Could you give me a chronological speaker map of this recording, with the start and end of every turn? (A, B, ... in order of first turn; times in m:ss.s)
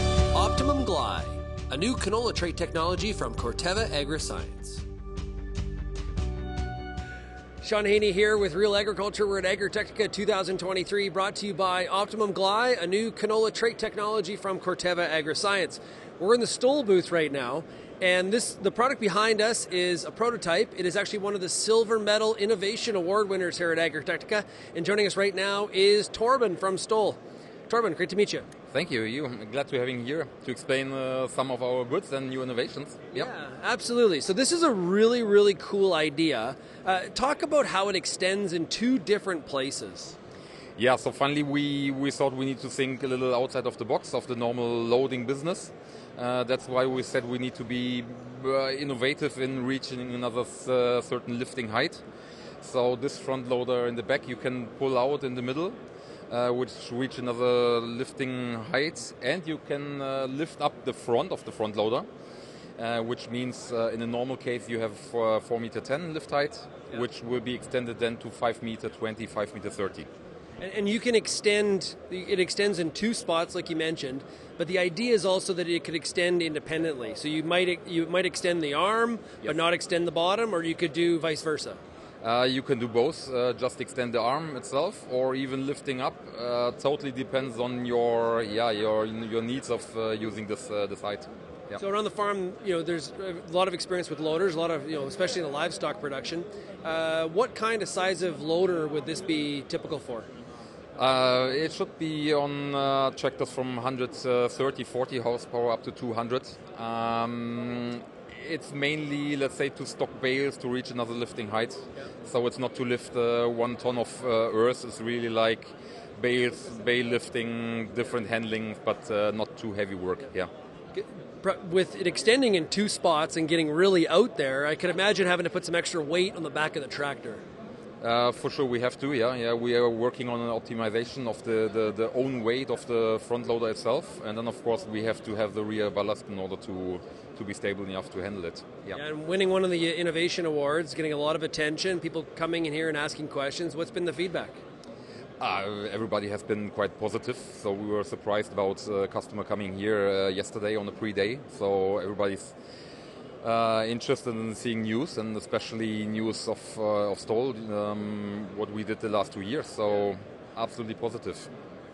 0:00.3-0:04.8 A
0:07.6-0:28.5 A
0:28.7-0:33.3 B
0:33.1-0:40.2 A
0:40.8-0:52.0 B
0:52.6-0:55.8 B
0:56.3-1:02.1 B
1:02.8-1:10.1 B
1:10.6-1:21.8 A
1:22.2-1:31.8 B
1:31.8-1:40.3 A
1:41.0-2:00.5 B
2:00.9-2:07.4 A
2:08.0-2:19.0 B
2:18.9-2:24.6 A
2:25.4-2:32.5 B
2:33.4-2:41.5 B